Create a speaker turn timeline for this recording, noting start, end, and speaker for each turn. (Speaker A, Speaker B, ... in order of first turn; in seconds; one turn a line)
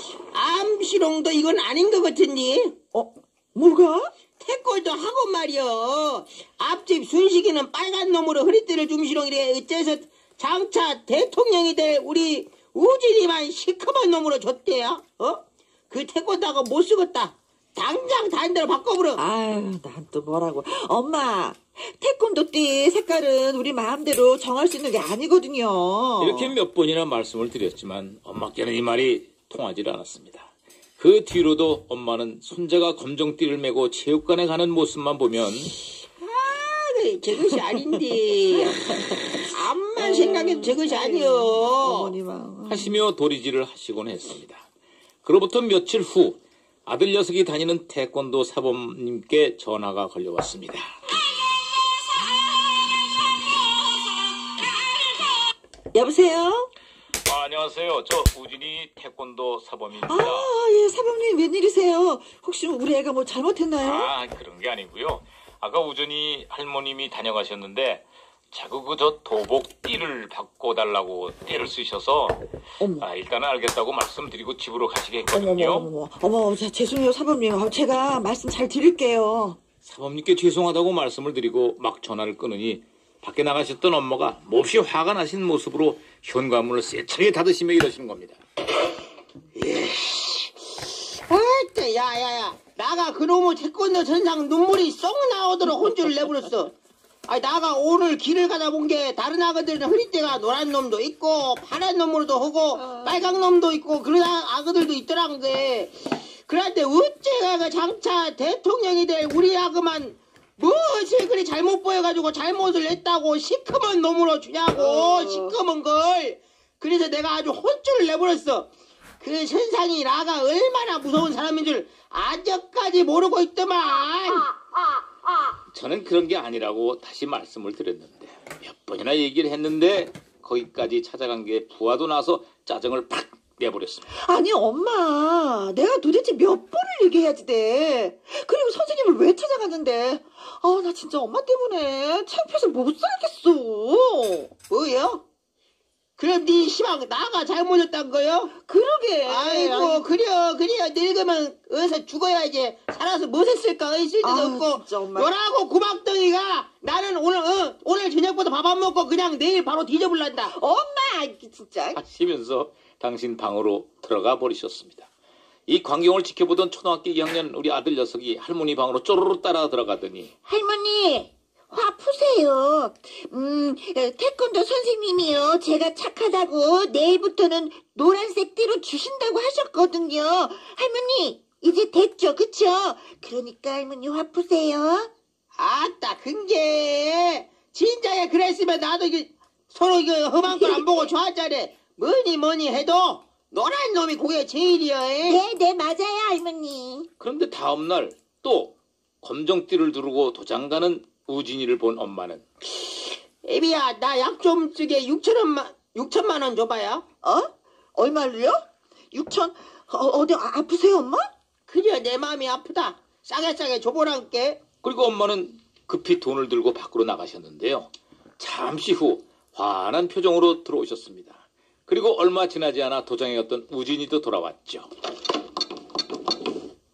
Speaker A: 0.3-2.7
Speaker B: 2.9-4.1
Speaker A: 4.4-19.2
Speaker B: 19.1-26.5
Speaker C: 26.2-35.8
Speaker A: 36.2-42.1
Speaker B: 38.7-39.2
Speaker B: 40.0-43.0
Speaker C: 42.7-44.6
Speaker C: 45.2-50.9
Speaker B: 55.9-56.7
Speaker C: 57.2-60.5
Speaker B: 60.0-64.1
Speaker C: 63.8-72.4
Speaker B: 72.8-73.1
Speaker C: 73.0-75.9
Speaker B: 75.3-79.6
Speaker C: 79.8-88.4
Speaker A: 89.5-96.7
Speaker A: 97.3-118.7
Speaker B: 102.8-103.2
Speaker B: 115.1-115.5
Speaker A: 119.2-124.5
Speaker C: 125.7-134.1
Speaker B: 134.1-144.5
Speaker A: 144.7-145.2
Speaker A: 146.2-148.5
Speaker B: 148.5-150.1
Speaker A: 149.2-160.5
Speaker B: 154.2-155.3
Speaker B: 160.5-162.0
Speaker C: 161.9-165.1
Speaker C: 165.7-170.3
Speaker D: 170.4-185.1
Speaker A: 185.6-195.4
Speaker D: 195.2-197.1
Speaker C: 197.2-202.4
Speaker A: 203.4-207.0
Speaker B: 207.2-211.3
Speaker A: 211.7-214.6
Speaker C: 214.8-224.9